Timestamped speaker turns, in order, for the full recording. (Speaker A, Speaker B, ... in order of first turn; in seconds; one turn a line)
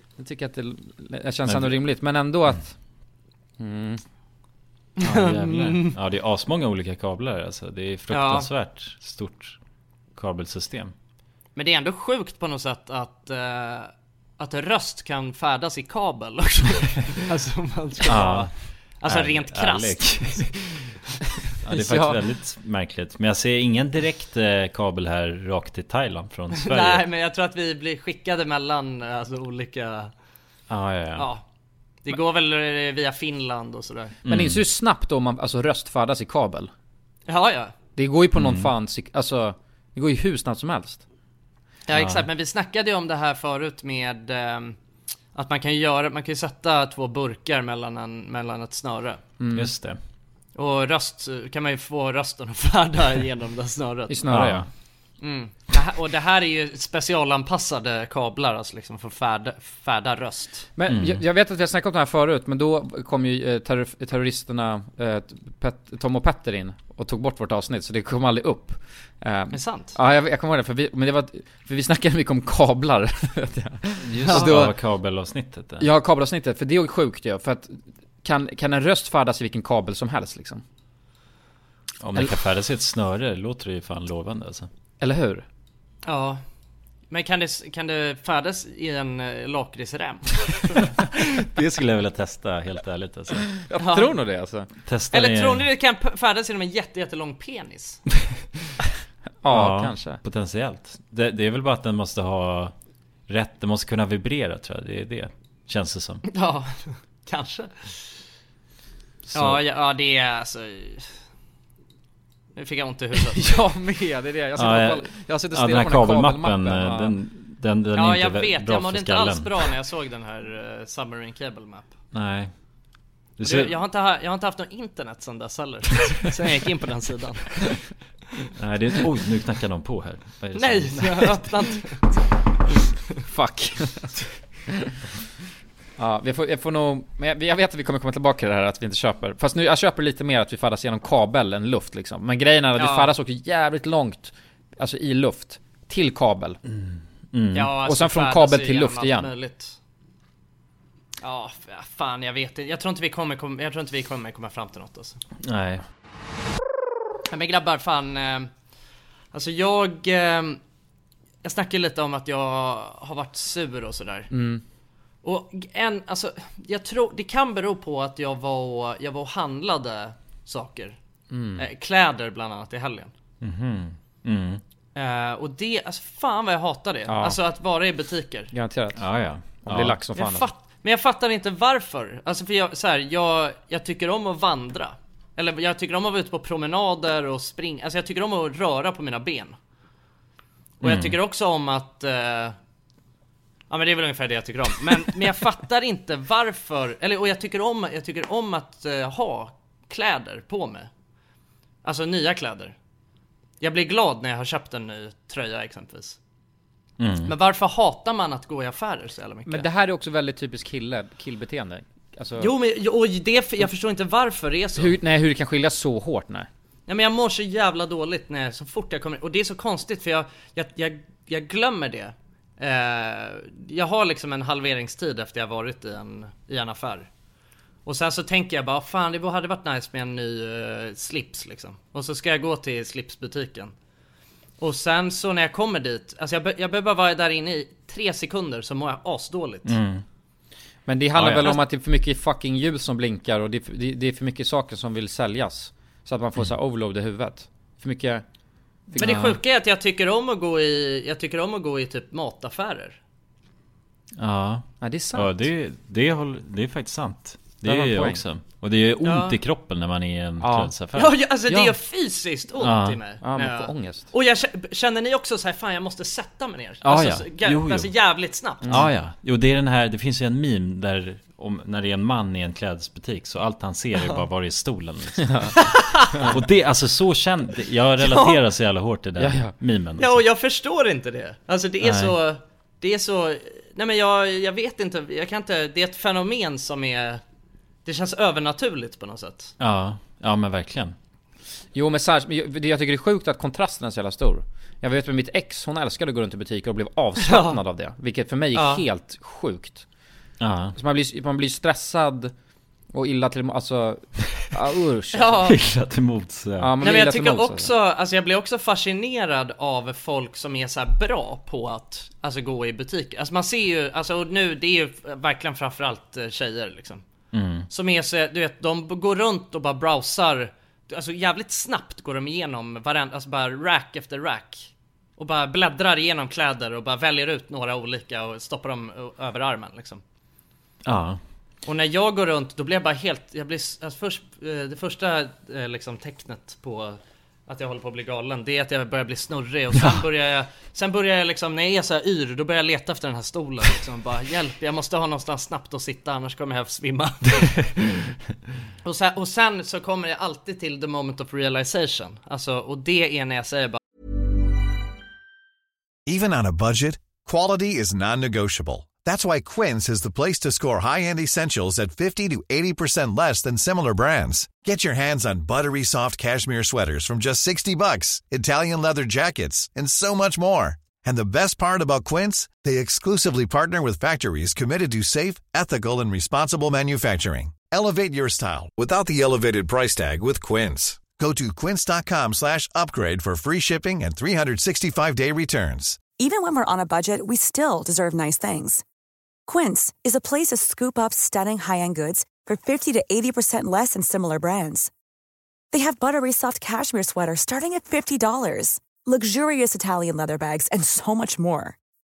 Speaker A: 0.2-2.7
Speaker B: 1.4-1.8
Speaker A: 3.6-4.0
Speaker C: 5.0-5.9
Speaker B: 5.0-9.6
Speaker C: 8.1-8.5
Speaker B: 10.2-10.9
Speaker C: 11.6-20.4
Speaker B: 18.0-18.5
Speaker B: 19.0-20.8
Speaker B: 21.6-27.0
Speaker A: 21.7-22.2
Speaker C: 26.5-30.1
Speaker B: 30.7-31.3
Speaker C: 31.1-31.4
Speaker C: 32.0-34.1
Speaker B: 34.2-34.6
Speaker A: 34.2-36.7
Speaker C: 37.3-37.7
Speaker A: 38.0-41.0
Speaker B: 38.3-38.7
Speaker C: 41.9-44.8
Speaker B: 41.9-42.2
Speaker C: 45.3-49.2
Speaker A: 49.4-49.7
Speaker B: 49.5-50.0
Speaker C: 50.5-54.1
Speaker A: 54.1-54.7
Speaker B: 54.3-54.7
Speaker C: 55.2-60.7
Speaker A: 60.8-74.7
Speaker B: 60.9-61.2
Speaker C: 69.5-70.0
Speaker B: 74.0-75.8
Speaker A: 75.8-80.6
Speaker B: 82.0-84.7
Speaker A: 85.0-85.4
Speaker C: 86.0-86.4
Speaker C: 87.1-91.1
Speaker B: 91.4-93.5
Speaker A: 93.7-94.7
Speaker C: 93.8-94.2
Speaker B: 94.8-95.7
Speaker C: 95.1-98.0
Speaker A: 99.4-100.2
Speaker B: 99.5-102.7
Speaker B: 103.3-106.2
Speaker C: 106.3-108.0
Speaker B: 109.2-109.6
Speaker C: 109.3-111.1
Speaker C: 112.5-113.6
Speaker A: 113.3-117.2
Speaker B: 114.6-119.7
Speaker C: 118.0-121.9
Speaker B: 122.1-122.5
Speaker B: 123.4-123.7
Speaker C: 123.4-127.8
Speaker B: 128.6-131.4
Speaker C: 130.5-132.1
Speaker A: 133.3-134.1
Speaker A: 136.0-146.6
Speaker C: 142.8-143.1
Speaker B: 146.7-147.7
Speaker C: 147.5-149.8
Speaker A: 147.8-149.3
Speaker C: 151.2-155.2
Speaker B: 155.4-155.8
Speaker C: 157.3-158.5
Speaker C: 159.3-160.6
Speaker C: 161.4-164.3
Speaker A: 164.3-164.6
Speaker C: 165.2-171.0
Speaker A: 171.3-171.7
Speaker C: 171.6-173.1
Speaker B: 173.4-174.6
Speaker C: 174.9-178.5
Speaker A: 177.1-177.4
Speaker A: 178.5-180.5
Speaker B: 178.9-180.0
Speaker C: 180.2-189.5
Speaker C: 190.8-192.6
Speaker B: 190.8-191.2
Speaker C: 193.7-200.9
Speaker C: 201.8-202.7
Speaker C: 203.6-206.2
Speaker B: 207.0-207.3
Speaker C: 207.2-209.7
Speaker A: 209.4-212.5
Speaker C: 212.4-214.9
Speaker A: 214.8-216.5
Speaker C: 216.9-227.1
Speaker C: 227.8-233.7
Speaker C: 234.6-239.7
Speaker B: 239.6-240.0
Speaker A: 240.9-248.2
Speaker B: 241.1-241.6
Speaker B: 249.0-249.4
Speaker C: 249.0-253.0
Speaker B: 254.2-261.1
Speaker A: 254.8-255.4
Speaker A: 257.6-258.2
Speaker C: 259.0-259.4
Speaker A: 260.4-260.7
Speaker C: 260.9-268.8
Speaker A: 261.5-261.7
Speaker B: 262.6-263.0
Speaker A: 263.2-264.1
Speaker B: 266.8-267.9
Speaker A: 268.6-268.9
Speaker B: 268.7-275.6
Speaker A: 275.2-275.5
Speaker C: 275.6-276.3
Speaker B: 276.3-280.2
Speaker C: 278.0-278.4
Speaker A: 279.2-279.5
Speaker C: 280.0-287.2
Speaker B: 281.8-282.1
Speaker C: 287.8-289.5
Speaker B: 289.6-290.9
Speaker A: 291.7-299.8
Speaker C: 297.2-297.6
Speaker C: 298.5-298.8
Speaker B: 300.4-300.8
Speaker A: 300.8-302.3
Speaker A: 302.9-305.5
Speaker C: 305.1-305.6
Speaker B: 305.4-306.7
Speaker A: 306.6-307.7
Speaker C: 306.8-317.0
Speaker B: 317.3-317.7
Speaker C: 317.7-330.0
Speaker B: 330.8-331.2
Speaker C: 331.6-347.9
Speaker B: 339.7-340.0
Speaker C: 348.8-353.8
Speaker D: 356.1-386.0
Speaker E: 386.1-388.8
Speaker E: 389.5-394.9
Speaker E: 395.7-401.8